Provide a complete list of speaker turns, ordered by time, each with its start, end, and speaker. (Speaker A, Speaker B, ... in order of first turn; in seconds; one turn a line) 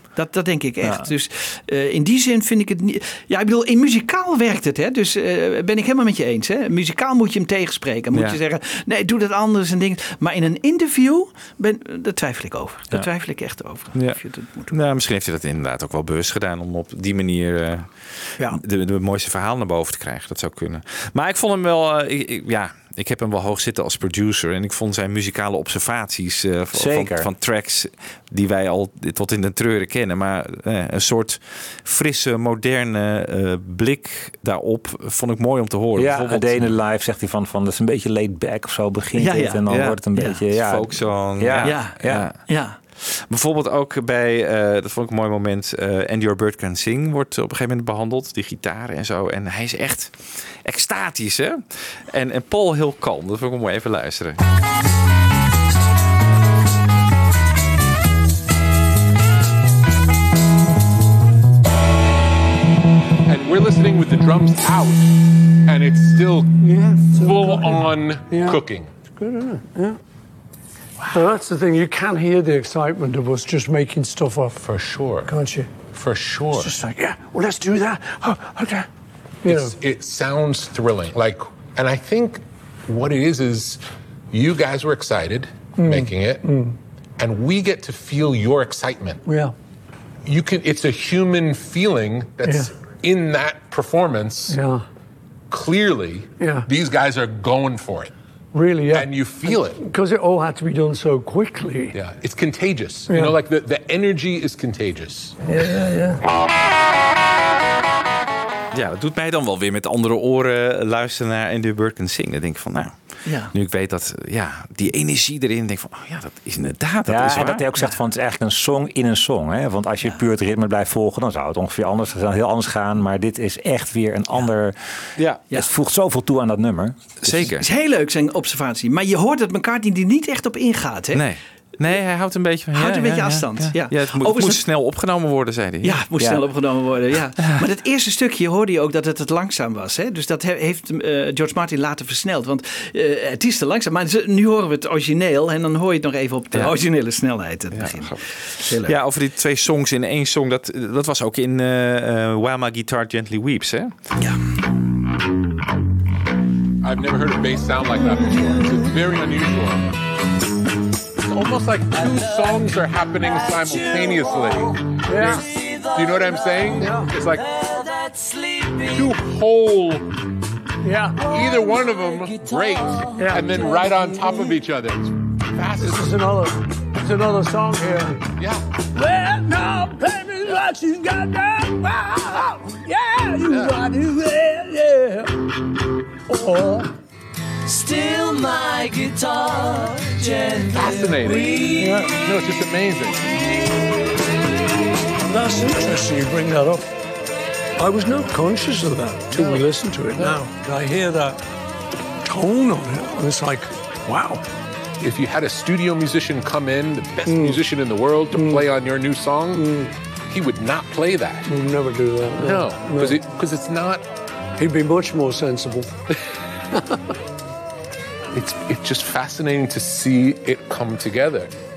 Speaker A: 0.1-14.7
Speaker B: 0.8-1.1
Speaker C: 13.9-36.7
Speaker B: 26.7-27.3
Speaker B: 36.0-42.2
Speaker A: 39.2-39.6
Speaker C: 39.7-54.4
Speaker A: 40.1-40.4
Speaker A: 41.6-42.8
Speaker D: 63.2-66.5
Speaker E: 66.6-68.6
Speaker D: 67.1-68.9
Speaker E: 69.2-70.0
Speaker D: 71.0-71.2
Speaker E: 71.1-74.6
Speaker D: 74.6-75.3
Speaker E: 75.2-75.7
Speaker D: 75.9-76.7
Speaker E: 76.5-78.9
Speaker E: 79.4-79.7
Speaker D: 79.4-83.8
Speaker D: 84.3-86.5
Speaker E: 85.8-86.8
Speaker D: 87.2-89.2
Speaker E: 89.2-89.5
Speaker D: 90.2-94.6
Speaker E: 92.4-92.7
Speaker E: 94.5-94.8
Speaker D: 95.5-98.1
Speaker E: 96.4-96.7
Speaker E: 98.5-102.0
Speaker D: 98.9-99.8
Speaker D: 101.9-105.3
Speaker E: 103.1-103.4
Speaker E: 105.4-106.2
Speaker C: 108.7-117.6
Speaker A: 113.2-113.5
Speaker B: 117.0-124.8
Speaker C: 125.2-125.4
Speaker B: 125.5-127.5
Speaker C: 127.2-127.6
Speaker A: 127.5-131.2
Speaker C: 131.1-136.0
Speaker A: 132.7-134.6
Speaker A: 135.8-148.9
Speaker C: 147.7-154.1
Speaker A: 154.2-154.4
Speaker D: 156.8-159.9
Speaker D: 161.3-167.5
Speaker F: 163.3-164.6
Speaker E: 165.1-165.4
Speaker F: 165.2-169.2
Speaker E: 166.8-167.1
Speaker D: 168.9-170.2
Speaker E: 170.8-171.3
Speaker D: 171.2-176.2
Speaker F: 171.4-174.2
Speaker E: 173.2-173.6
Speaker E: 175.8-178.2
Speaker D: 178.4-178.6
Speaker E: 178.9-185.4
Speaker D: 183.5-183.8
Speaker E: 186.3-186.9
Speaker F: 187.7-192.0
Speaker D: 190.7-193.3
Speaker E: 191.8-192.1
Speaker E: 195.3-196.9
Speaker E: 197.8-201.4
Speaker D: 199.3-199.6
Speaker E: 202.2-204.4
Speaker D: 205.0-209.7
Speaker E: 207.2-207.6
Speaker E: 208.3-208.7
Speaker E: 209.5-209.9
Speaker D: 210.3-211.5
Speaker E: 211.5-213.2
Speaker D: 212.3-214.1
Speaker E: 214.6-216.0
Speaker E: 216.7-217.1
Speaker D: 218.3-221.5